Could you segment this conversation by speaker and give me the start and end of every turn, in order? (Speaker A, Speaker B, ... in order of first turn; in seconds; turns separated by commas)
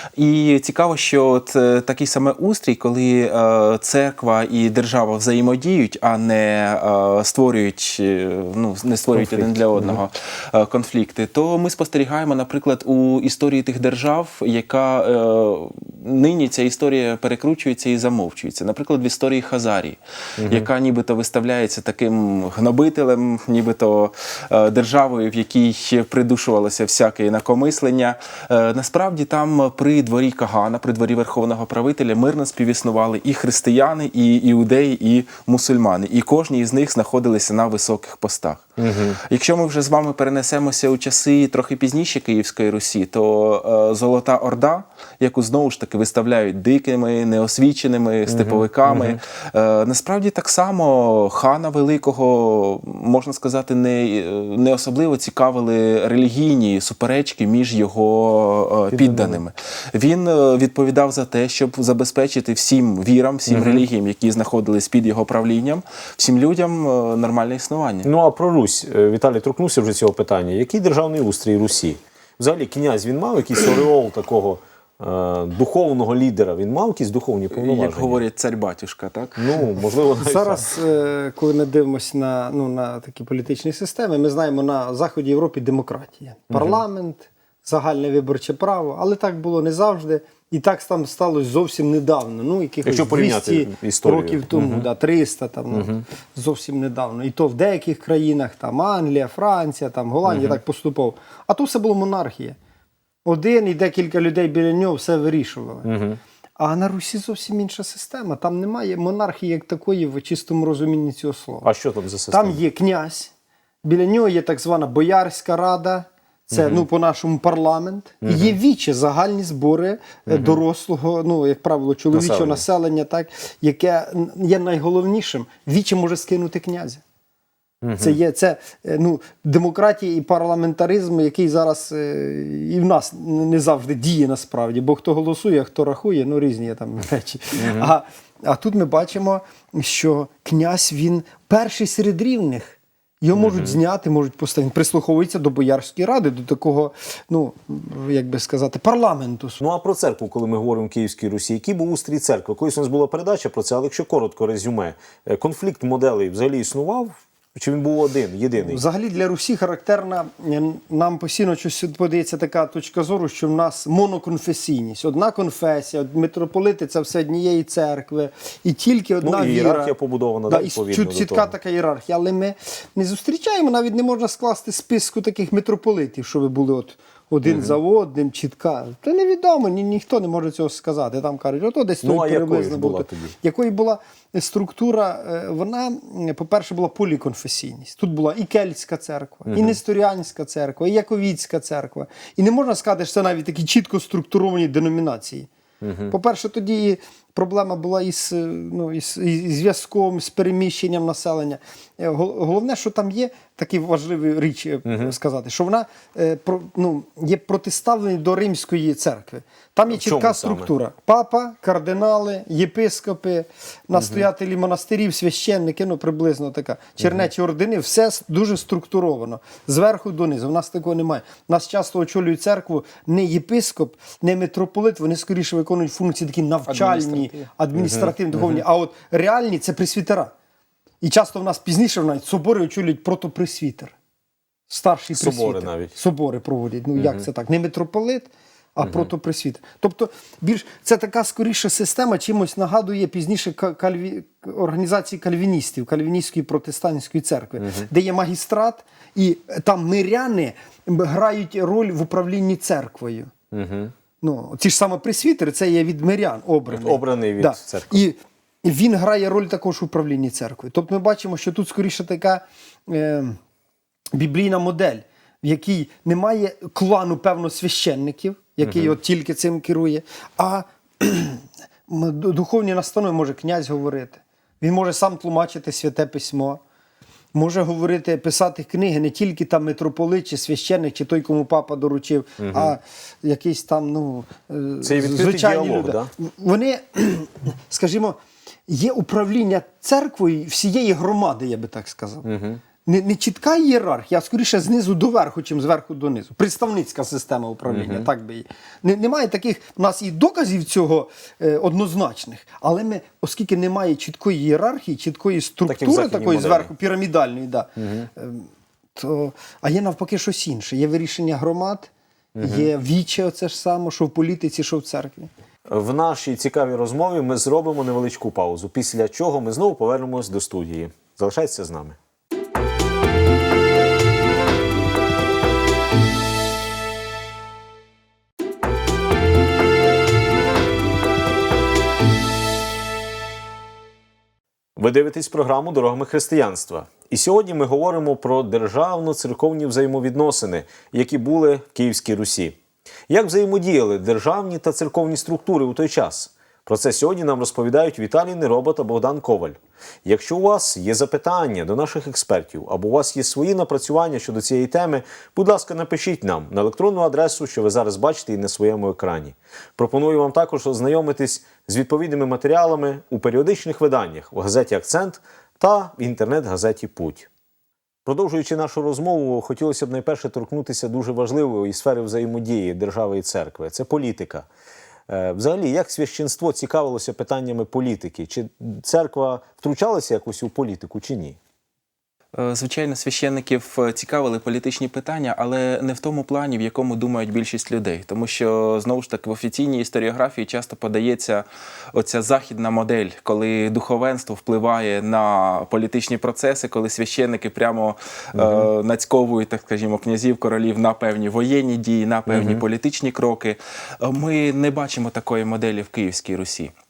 Speaker A: 0.2-38.7, Speaker B: 9.2-10.0, Speaker B: 20.4-20.7, Speaker B: 38.8-39.2, Speaker A: 39.2-68.1, Speaker B: 48.3-49.2, Speaker B: 58.9-59.4, Speaker B: 63.5-63.9, Speaker B: 68.0-78.2, Speaker A: 77.5-79.6, Speaker B: 79.4-80.7, Speaker C: 80.2-102.6, Speaker B: 86.5-86.8, Speaker B: 92.9-94.9, Speaker B: 95.7-96.0, Speaker B: 100.2-100.6, Speaker C: 103.2-105.9, Speaker B: 105.8-106.2, Speaker C: 106.6-111.7, Speaker B: 111.6-112.6, Speaker C: 112.3-113.3, Speaker C: 113.8-127.0, Speaker B: 116.5-116.8, Speaker B: 118.2-118.6, Speaker B: 120.3-120.6, Speaker B: 122.1-122.6, Speaker B: 127.8-128.2, Speaker C: 128.0-149.6, Speaker B: 137.6-137.9, Speaker B: 143.3-143.8, Speaker B: 149.6-158.8, Speaker C: 158.6-169.9, Speaker B: 169.2-171.5, Speaker C: 170.5-195.5, Speaker B: 177.4-177.8, Speaker B: 182.0-183.3, Speaker B: 189.5-189.8, Speaker B: 195.8-196.1, Speaker C: 196.1-230.3, Speaker B: 204.8-205.2, Speaker B: 209.9-210.7, Speaker B: 214.0-214.3, Speaker B: 217.0-217.3, Speaker A: 226.7-227.5, Speaker B: 227.8-228.6, Speaker C: 231.0-233.9, Speaker C: 234.7-253.3, Speaker B: 235.2-235.9, Speaker B: 237.0-237.3, Speaker B: 238.8-239.1, Speaker B: 247.6-247.9, Speaker B: 253.5-253.9, Speaker C: 254.2-263.4, Speaker B: 256.7-258.1, Speaker C: 264.1-276.6, Speaker B: 268.6-268.9, Speaker C: 277.3-292.3, Speaker B: 282.4-282.7, Speaker B: 284.8-286.1, Speaker B: 292.2-292.6, Speaker C: 292.9-315.3, Speaker B: 297.7-298.1, Speaker B: 305.7-306.7, Speaker B: 307.8-308.1, Speaker B: 312.4-312.7, Speaker B: 315.7-322.0, Speaker B: 334.8-342.6, Speaker B: 343.1-367.3, Speaker B: 368.1-374.5, Speaker B: 375.1-381.4, Speaker A: 382.4-406.7, Speaker B: 398.4-398.7, Speaker B: 402.3-402.6